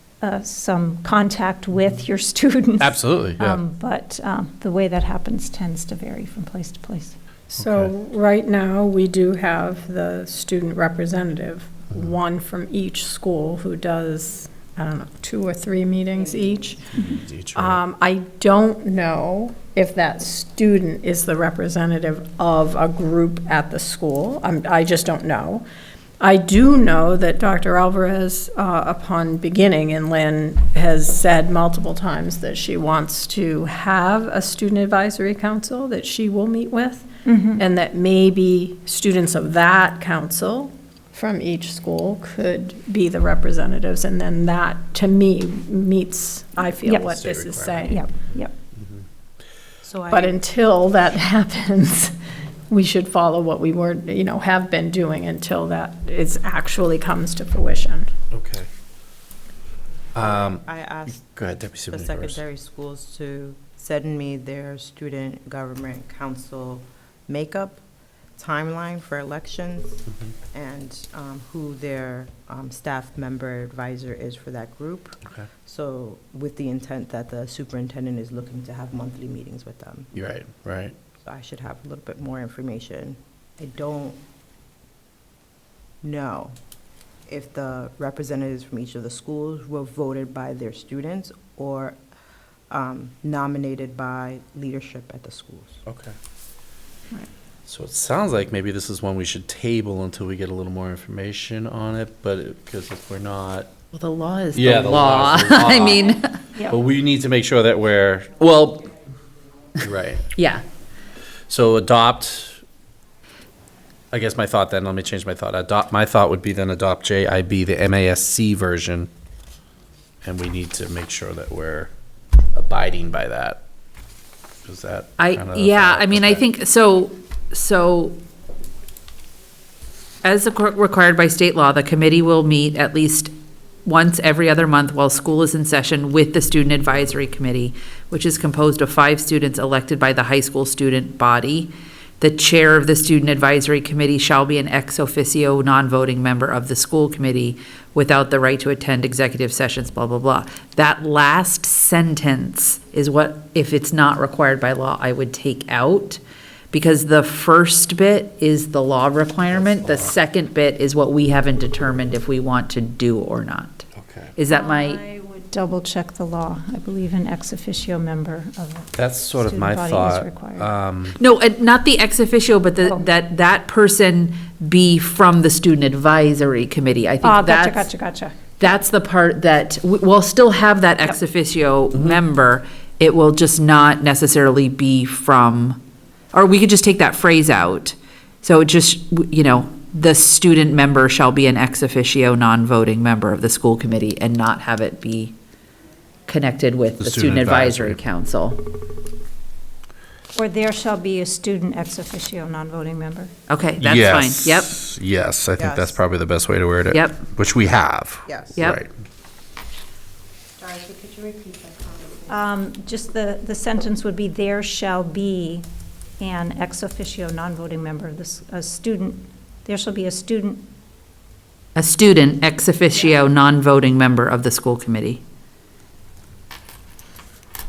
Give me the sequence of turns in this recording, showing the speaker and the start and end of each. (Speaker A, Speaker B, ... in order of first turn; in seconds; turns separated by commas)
Speaker A: 0.2-7.2, Speaker B: 2.8-3.6, Speaker C: 7.5-16.9, Speaker B: 7.6-7.9, Speaker D: 16.1-17.0, Speaker B: 16.9-17.8, Speaker C: 17.6-25.6, Speaker C: 26.2-48.0, Speaker A: 37.2-37.6, Speaker A: 46.8-47.1, Speaker B: 47.1-47.9, Speaker A: 47.8-48.5, Speaker B: 48.8-49.0, Speaker D: 49.8-50.4, Speaker C: 50.1-52.1, Speaker C: 52.7-58.1, Speaker B: 58.3-58.7, Speaker B: 60.1-62.4, Speaker D: 60.2-61.3, Speaker D: 61.8-67.8, Speaker D: 68.4-80.1, Speaker B: 80.1-81.0, Speaker D: 81.2-84.2, Speaker D: 86.0-86.6, Speaker D: 87.3-92.0, Speaker D: 92.7-95.8, Speaker B: 95.9-96.2, Speaker B: 97.7-103.7, Speaker E: 103.9-106.4, Speaker B: 104.5-108.9, Speaker B: 109.8-110.3, Speaker E: 110.3-110.6, Speaker B: 111.5-112.6, Speaker B: 114.1-119.1, Speaker B: 120.2-121.9, Speaker B: 122.5-123.6, Speaker B: 124.7-126.5, Speaker E: 125.2-128.2, Speaker E: 130.2-133.3, Speaker E: 133.8-156.2, Speaker E: 156.7-163.9, Speaker B: 159.5-160.1, Speaker B: 164.0-164.3, Speaker E: 164.4-165.0, Speaker A: 164.6-170.7, Speaker B: 169.0-171.2, Speaker E: 171.2-177.9, Speaker A: 177.2-178.4, Speaker E: 178.6-185.8, Speaker E: 186.3-195.3, Speaker E: 196.3-198.6, Speaker B: 197.0-198.0, Speaker A: 200.3-203.3, Speaker E: 203.5-204.8, Speaker B: 203.8-208.9, Speaker D: 205.6-206.0, Speaker E: 206.9-207.2, Speaker D: 208.3-208.6, Speaker D: 210.6-212.4, Speaker A: 212.3-215.7, Speaker A: 216.2-220.7, Speaker E: 221.8-225.2